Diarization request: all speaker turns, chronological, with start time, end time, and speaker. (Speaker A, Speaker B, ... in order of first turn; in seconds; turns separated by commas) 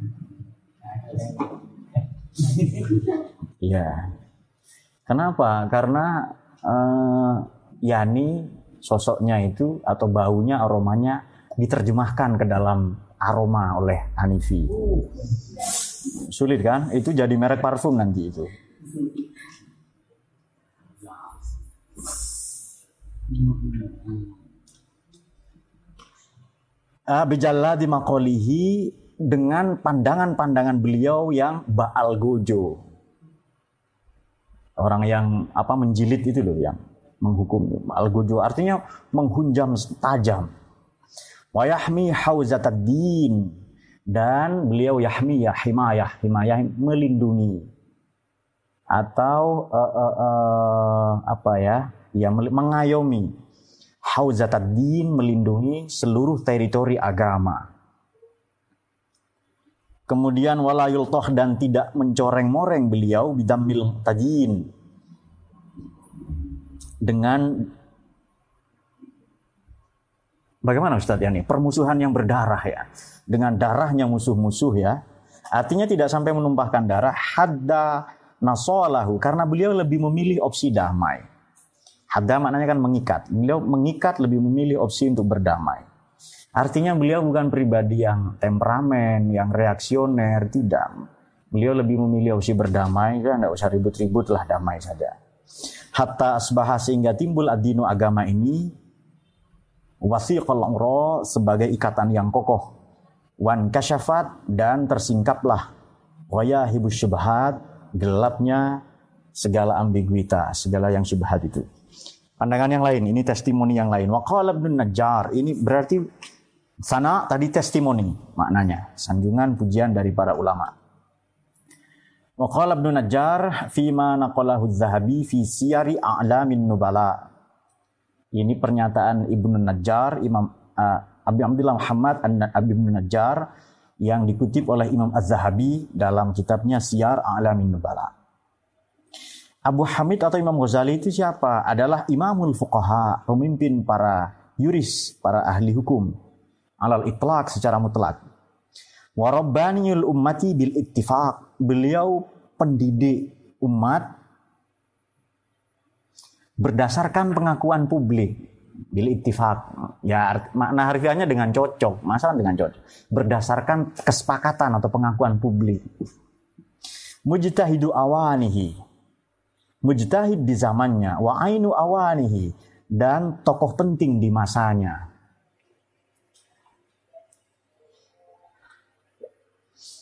Speaker A: 3.6-4.1, Speaker A: 5.1-15.0, Speaker A: 16.2-18.5, Speaker A: 27.1-32.8, Speaker A: 34.8-40.5, Speaker A: 41.5-43.6, Speaker A: 44.1-47.7, Speaker A: 48.9-53.3, Speaker A: 54.0-57.6, Speaker A: 60.1-64.7, Speaker A: 67.0-67.7, Speaker A: 70.6-75.0, Speaker A: 75.5-81.3, Speaker A: 82.1-85.9, Speaker A: 86.6-90.9, Speaker A: 91.5-95.2, Speaker A: 95.9-98.7, Speaker A: 100.0-102.7, Speaker A: 103.4-105.7, Speaker A: 106.3-108.8, Speaker A: 109.3-111.7, Speaker A: 112.4-116.0, Speaker A: 116.8-120.7, Speaker A: 122.4-127.3, Speaker A: 128.3-133.5, Speaker A: 134.0-138.1, Speaker A: 139.7-146.1, Speaker A: 146.8-148.2, Speaker A: 149.2-154.1, Speaker A: 156.6-158.4, Speaker A: 158.9-165.8, Speaker A: 167.2-168.8, Speaker A: 169.8-175.0